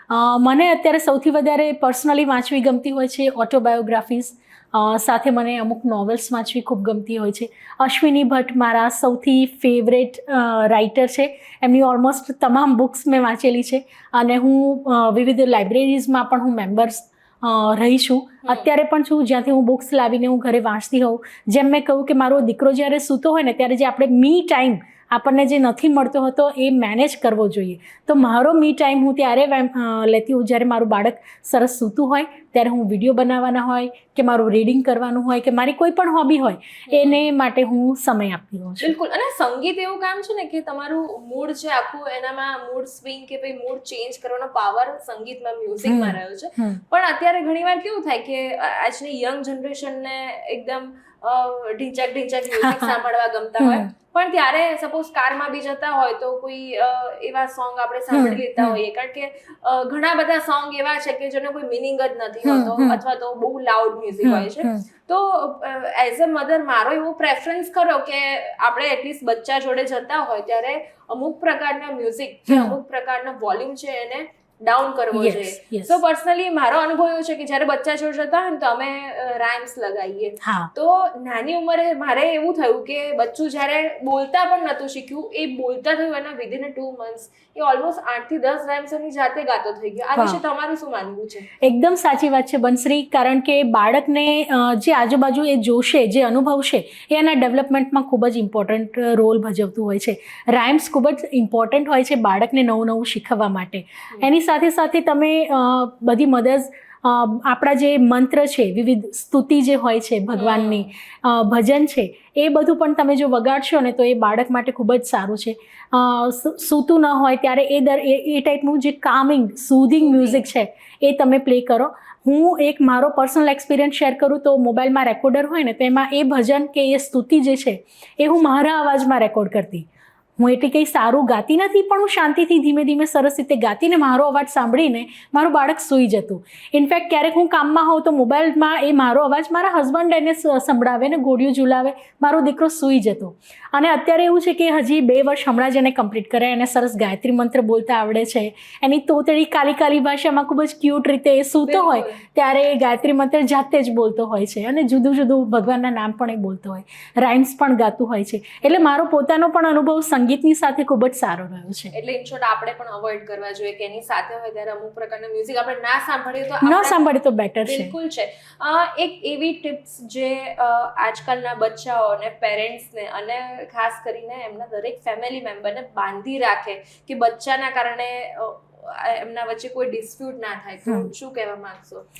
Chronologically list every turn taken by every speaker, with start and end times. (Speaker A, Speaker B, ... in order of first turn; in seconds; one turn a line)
Speaker A: 0.1-38.9
Speaker B: 36.9-37.2
Speaker B: 38.8-91.5
Speaker A: 45.9-46.8
Speaker A: 52.6-52.9
Speaker A: 53.6-53.9
Speaker A: 58.1-58.8
Speaker A: 62.4-63.0
Speaker A: 64.2-64.8
Speaker A: 72.5-72.8
Speaker A: 75.1-76.0
Speaker A: 80.4-80.7
Speaker A: 91.6-129.8
Speaker B: 110.3-110.9
Speaker B: 120.0-120.5
Speaker A: 130.4-161.9
Speaker B: 151.6-152.2
Speaker B: 158.6-158.9
Speaker B: 161.9-167.0
Speaker A: 166.6-167.9
Speaker B: 167.6-182.0